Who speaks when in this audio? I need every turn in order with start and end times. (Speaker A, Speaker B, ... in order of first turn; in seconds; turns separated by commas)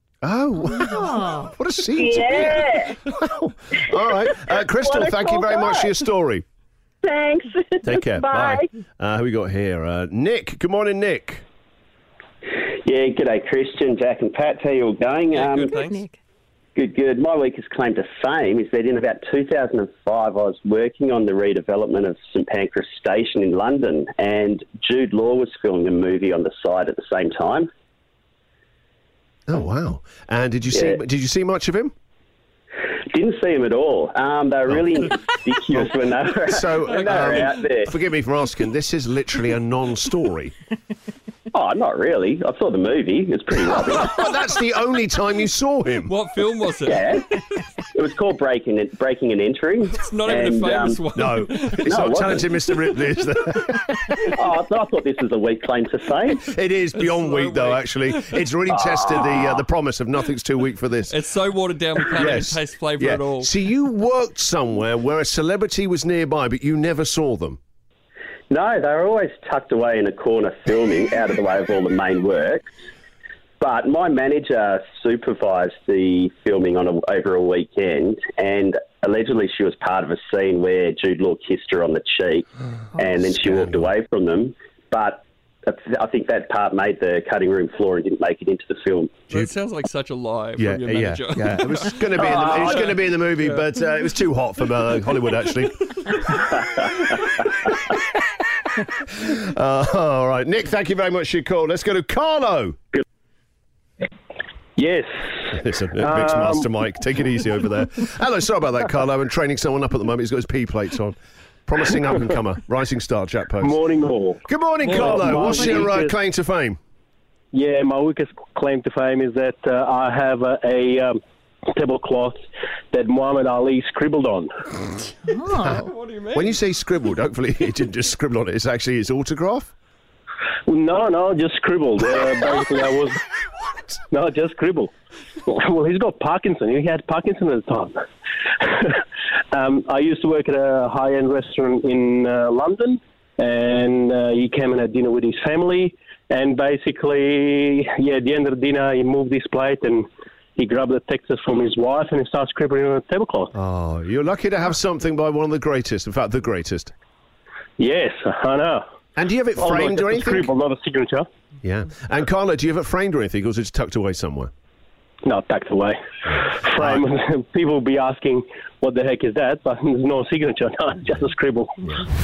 Speaker A: 0.2-6.4, Speaker B: 2.0-3.0, Speaker B: 4.8-5.9, Speaker B: 7.0-8.7, Speaker A: 7.8-11.4, Speaker C: 12.8-15.8, Speaker D: 15.3-16.1, Speaker C: 16.8-27.7, Speaker A: 29.5-31.9, Speaker C: 30.7-31.0, Speaker C: 33.1-37.9, Speaker A: 36.5-40.5, Speaker D: 36.9-37.6, Speaker C: 41.5-44.2, Speaker A: 43.8-46.1, Speaker D: 46.1-47.4, Speaker C: 46.9-47.3, Speaker C: 47.9-51.0, Speaker D: 49.9-52.0, Speaker A: 51.1-54.2, Speaker C: 51.8-52.5, Speaker C: 54.2-56.4, Speaker A: 56.4-61.2, Speaker D: 56.9-58.4, Speaker C: 58.7-59.6, Speaker D: 61.1-63.5, Speaker A: 62.1-67.6, Speaker C: 68.5-72.7, Speaker C: 73.6-89.2, Speaker A: 83.3-83.9, Speaker D: 89.3-93.7, Speaker A: 90.6-96.1, Speaker C: 92.2-92.9, Speaker C: 96.4-97.0, Speaker A: 99.1-102.8, Speaker E: 104.8-105.1, Speaker A: 105.5-113.8, Speaker E: 106.0-106.7, Speaker E: 113.6-116.2, Speaker A: 114.5-116.8, Speaker E: 117.5-121.2, Speaker E: 121.7-122.4, Speaker E: 122.9-124.5, Speaker A: 125.5-129.7, Speaker D: 125.8-126.5, Speaker E: 130.7-133.2, Speaker E: 134.1-134.9, Speaker E: 135.5-138.0, Speaker E: 138.6-139.0, Speaker E: 139.5-153.5, Speaker A: 153.5-156.9, Speaker E: 157.8-158.8, Speaker A: 159.2-160.5, Speaker E: 159.6-161.3, Speaker A: 161.6-164.5, Speaker E: 165.2-171.7, Speaker A: 166.3-167.1